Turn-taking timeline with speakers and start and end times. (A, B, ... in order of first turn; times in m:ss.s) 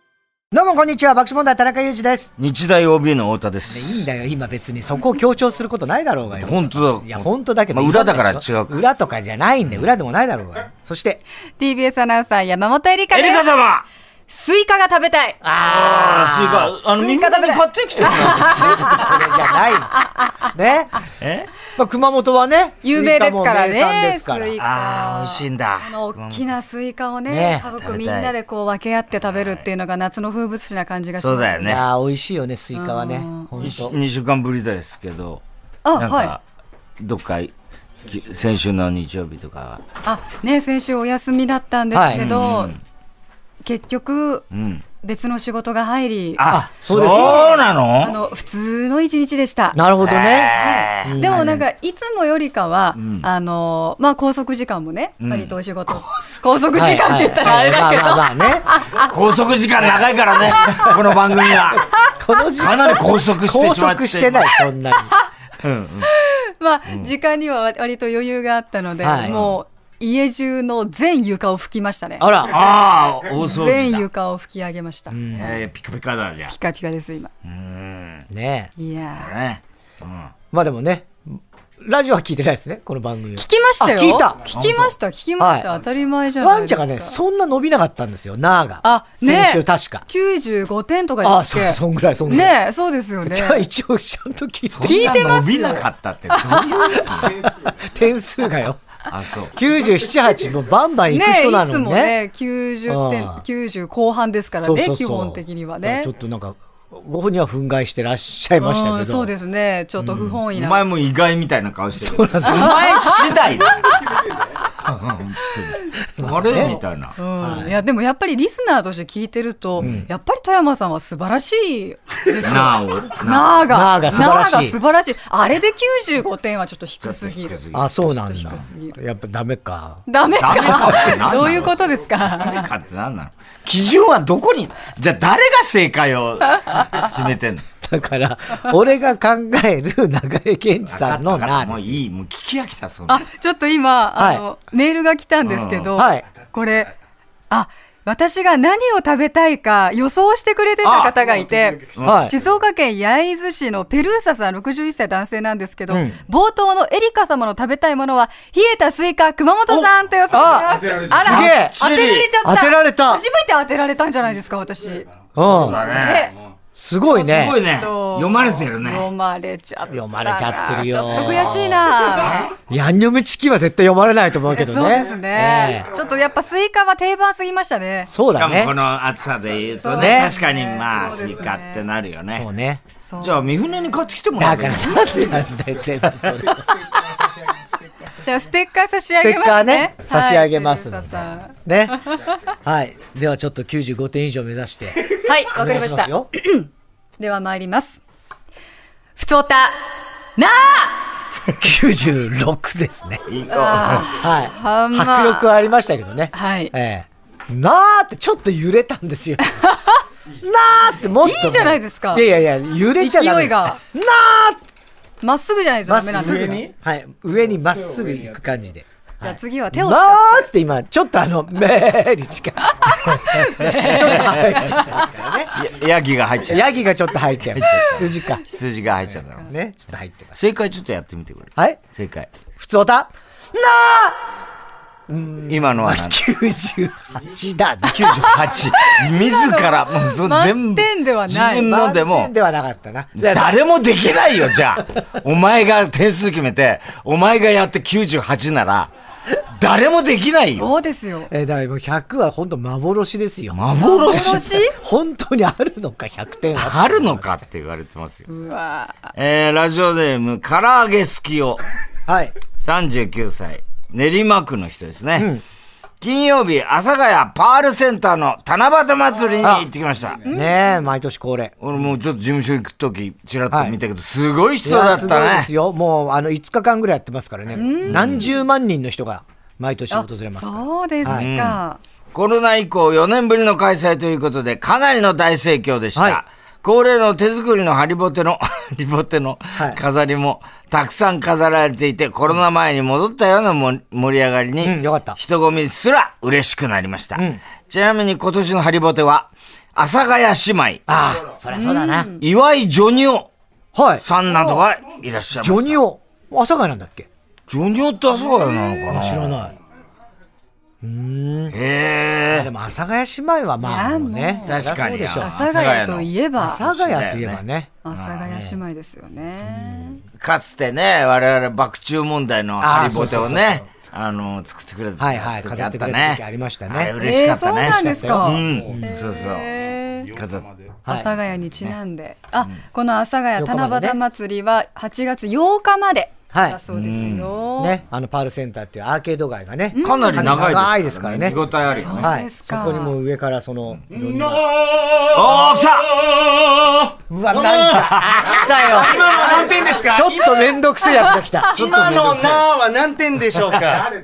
0:00.5-0:02.3 A
0:02.4-0:04.0 B
0:03.7-0:11.2 A
0:06.4-0:08.8 B
0:11.6-0:13.4 C
0:13.1-0:13.8 B
0:14.3-0:15.4 C
0:15.4-0:16.8 A
0:15.6-0:19.1 B
0:16.9-0:19.4 C
0:18.4-0:21.0 A
0:20.0-0:20.5 C
0:21.2-0:21.5 B
0:21.8-0:24.6 A
0:22.8-0:31.8 C
0:24.6-0:26.4 B
0:27.3-0:27.7 A
0:27.8-0:28.3 B
0:29.3-0:29.6 B
0:31.2-0:31.8 B
0:31.6-0:34.0 A
0:32.7-0:33.5 C
0:33.6-0:35.4 B
0:35.8-0:36.3 C
0:35.9-0:36.4 B
0:37.0-0:37.5 B
0:38.0-0:39.8 B
0:40.0-0:42.8 C
0:41.9-0:42.2 A
0:42.1-0:42.8 B
0:43.6-0:44.4 C
0:44.5-0:44.8 B
0:45.0-0:49.8 C
0:46.4-0:48.2 B
0:46.4-0:47.6 A
0:49.7-0:51.6 A
0:50.0-0:51.2 B
0:50.6-0:59.1 C
0:53.0-0:53.3 B
0:55.2-0:56.4 B
0:56.7-0:58.6 A
0:58.9-1:01.9 B
1:00.6-1:00.9 C
1:02.0-1:05.1 A
1:02.6-1:04.5 B
1:05.6-1:06.1 B
1:06.0-1:12.3 C
1:09.0-1:09.4 A
1:09.2-1:09.6 B
1:12.2-1:12.7 A
1:12.4-1:14.0 B
1:13.4-1:15.2 C
1:15.1-1:15.6 A
1:15.3-1:16.5 B
1:16.5-1:17.3 C
1:17.4-1:18.2 B
1:18.3-1:18.7 A
1:18.8-1:19.3 C
1:19.2-1:20.3 B
1:20.5-1:24.5 A
1:23.4-1:27.2 C
1:24.5-1:24.9 B
1:25.4-1:25.7 A
1:26.4-1:30.0 A
1:28.8-1:33.6 C
1:31.2-1:32.6 A
1:33.2-1:35.3 A
1:34.6-1:37.5 B
1:34.8-1:37.1 C
1:37.2-1:38.8 A
1:39.1-1:39.5 B
1:39.5-1:42.2 A
1:41.1-1:46.1 C
1:42.9-1:43.4 A
1:44.6-1:49.3 A
1:48.6-1:50.8 C
1:50.0-1:54.0 B
1:52.0-1:52.9 A
1:52.5-1:53.3 C
1:54.8-1:57.2 B
1:56.2-1:56.8 A
1:57.2-2:09.0 C
1:57.4-1:57.7 A
1:59.8-2:00.0 B
1:59.8-2:00.1 A
2:02.4-2:04.3 B
2:03.6-2:04.8 A
2:07.0-2:08.6 B
2:07.7-2:11.1 A
2:10.1-2:12.7 C
2:10.4-2:17.6 B
2:17.8-2:22.0 A
2:20.9-2:23.2 B
2:23.1-2:26.9 C
2:24.2-2:24.4 A
2:25.4-2:26.0 B
2:26.0-2:26.2 A
2:27.5-2:45.1 C
2:30.8-2:31.1 B
2:31.9-2:32.3 B
2:32.0-2:32.4 A
2:35.9-2:36.2 A
2:40.3-2:41.7 A
2:41.1-2:42.3 B
2:42.4-2:43.2 A
2:45.3-2:45.8 A
2:45.4-2:46.3 B
2:45.7-2:46.3 C
2:46.7-2:47.6 A
2:47.1-2:52.5 C
2:47.1-2:49.1 B
2:49.9-2:51.6 A
2:52.7-2:55.9 A
2:54.5-2:58.1 C
2:58.0-2:58.7 A
2:58.3-3:02.4 B
2:59.8-3:01.8 C
2:59.9-3:00.3 A
3:02.3-3:02.8 A
3:03.0-3:03.5 C
3:03.2-3:05.1 B
3:04.4-3:06.7 A
3:08.2-3:12.3 C
3:09.2-3:12.0 A
3:12.6-3:16.3 A
3:15.2-3:16.7 C
3:17.2-3:18.0 C
3:19.2-3:19.8 C
3:20.4-3:21.1 C
3:21.4-3:23.2 A
3:23.3-3:24.1 B
3:23.5-3:25.5 C
3:24.0-3:29.4 A
3:26.3-3:26.7 C
3:29.5-3:30.0 C
3:30.4-3:34.6 A
3:31.2-3:32.3 C
3:33.0-3:33.8 C
3:35.2-3:36.7 C
3:35.9-3:45.5 A
3:39.2-3:40.5 C
3:42.7-3:45.1 C
3:44.2-3:44.6 B
3:45.5-3:46.7 B
3:46.5-3:48.4 A
3:47.5-3:49.5 B
3:49.4-3:50.4 A
3:50.3-3:52.3 B
3:52.6-3:54.2 A
3:55.1-3:58.5 A
3:55.5-3:56.2 B
3:57.8-4:02.3 B
3:59.1-4:01.7 C
4:01.6-4:03.6 A
4:03.2-4:10.7 B
4:10.6-4:11.3 C
4:11.3-4:17.3 A
4:13.5-4:14.6 B
4:13.8-4:14.8 C
4:16.6-4:18.3 B
4:18.3-4:19.1 C
4:19.2-4:21.6 B
4:22.1-4:22.4 A
4:22.6-4:25.3 B
4:25.2-4:25.4 A
4:26.0-4:30.2 B
4:29.4-4:29.7 A
4:30.3-4:30.8 C
4:30.3-4:31.5 A
4:31.6-4:35.5 B
4:33.5-4:33.8 A
4:34.6-4:41.3 A
4:37.6-4:38.3 C
4:37.8-4:38.3 B
4:39.9-4:41.8 C
4:41.0-4:41.6 B
4:42.1-5:00.8 B
4:45.9-4:46.2 A
4:49.6-4:49.8 A
4:54.6-4:55.2 A
4:57.2-4:57.4 A
5:00.9-5:02.1 A
5:01.5-5:02.2 C
5:02.2-5:03.3 B
5:03.7-5:04.0 A
5:04.0-5:05.8 B
5:05.4-5:07.1 A
5:07.5-5:09.3 B
5:08.2-5:08.9 C
5:08.9-5:09.5 A
5:10.8-5:11.6 A
5:11.5-5:12.5 B
5:12.3-5:15.3 A
5:13.6-5:14.5 C
5:14.4-5:17.4 B
5:15.2-5:16.6 C
5:16.4-5:17.7 A
5:17.8-5:20.0 C
5:17.9-5:18.3 B
5:18.2-5:18.6 A
5:19.4-5:20.0 A
5:20.2-5:29.5 B
5:22.6-5:23.6 A
5:25.0-5:26.9 A
5:27.0-5:30.1 C
5:27.7-5:28.9 A
5:30.1-5:30.4 B
5:30.8-5:31.1 A
5:30.9-5:37.8 C
5:33.4-5:34.0 A
5:36.3-5:36.6 A
5:36.7-5:37.3 B
5:37.6-5:41.4 A
5:39.7-5:40.4 C
5:39.8-5:42.1 B
5:41.8-5:42.9 C
5:42.0-5:44.4 A
5:43.9-5:44.5 D
5:44.6-5:48.4 B
5:47.1-5:51.6 A
5:48.4-5:50.4 D
5:51.5-5:53.9 D
5:51.6-5:52.4 B